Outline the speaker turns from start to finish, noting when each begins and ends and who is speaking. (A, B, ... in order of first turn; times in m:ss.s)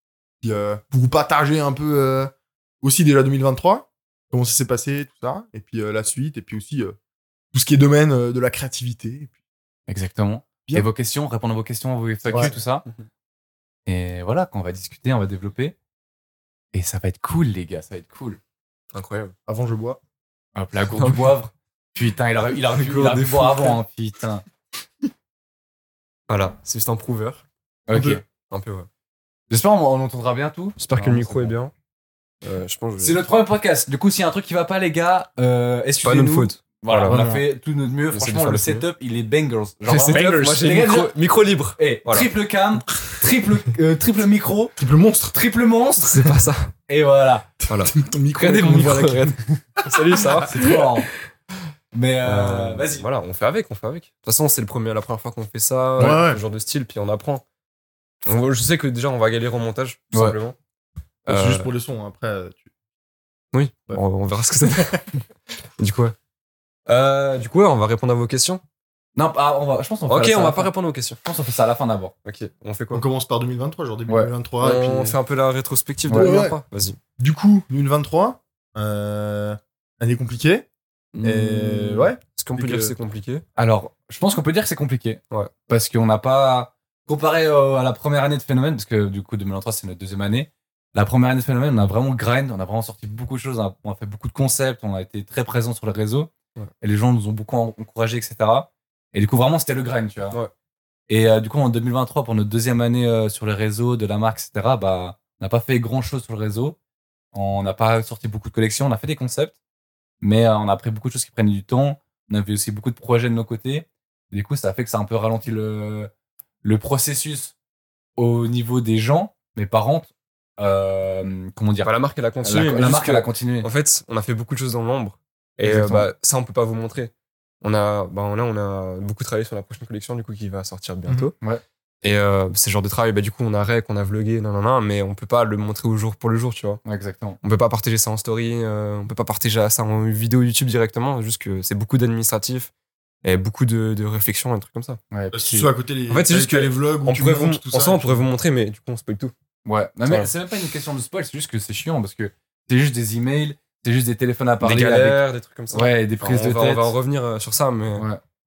0:00.4-0:02.3 A
0:02.8-0:07.0 A
0:07.5-0:09.3 A
0:09.9-0:12.9 B
0:12.3-0:12.6 A
0:12.5-0:13.1 C
0:13.9-0:15.8 B
0:16.7-0:18.4 B
0:18.9-0:19.4 C
0:19.5-0:20.0 A
0:20.6-0:24.4 B
0:20.9-0:21.4 C
0:22.7-0:23.8 C
0:26.3-0:27.4 C
0:27.9-0:28.2 B
0:27.9-0:28.2 A
0:28.0-0:28.9 C
0:29.5-0:31.5 B
0:30.8-0:31.7 C
0:32.4-0:33.2 C
0:33.0-0:41.2 B
0:36.0-0:37.2 C
0:37.1-0:37.4 A
0:38.1-0:38.9 C
0:39.9-0:42.3 C
0:41.8-0:44.7 B
0:44.8-0:45.4 A
0:45.3-0:47.5 B
0:46.0-0:46.7 C
0:47.6-0:50.7 A
0:47.7-0:49.3 C
0:49.8-0:50.7 C
0:50.4-0:51.1 B
0:51.9-0:53.0 B
0:52.2-0:57.4 C
0:56.0-0:56.4 A
0:58.2-1:00.6 C
1:01.3-1:01.7 C
1:01.3-1:02.7 A
1:03.5-1:05.2 C
1:05.8-1:06.2 C
1:06.9-1:08.6 C
1:09.2-1:10.7 B
1:10.1-1:11.2 C
1:11.2-1:12.1 B
1:12.2-1:13.0 C
1:12.9-1:15.2 A
1:14.6-1:17.0 C
1:16.1-1:16.4 B
1:16.1-1:16.6 A
1:17.2-1:20.6 A
1:21.1-1:23.4 C
1:21.2-1:22.9 A
1:23.6-1:40.4 B
1:41.1-1:46.8 B
1:47.3-1:49.6 B
1:50.2-1:56.1 B
1:56.6-1:57.5 B
1:58.2-2:03.7 B
2:01.8-2:11.3 C
2:05.6-2:06.1 B
2:12.0-2:16.8 C
2:16.8-2:17.4 B
2:17.4-2:22.7 C
2:23.2-2:25.0 C
2:25.1-2:25.7 B
2:25.3-2:28.2 A
2:26.1-2:29.3 C
2:29.6-2:36.9 B
2:30.0-2:30.3 C
2:34.6-2:38.1 C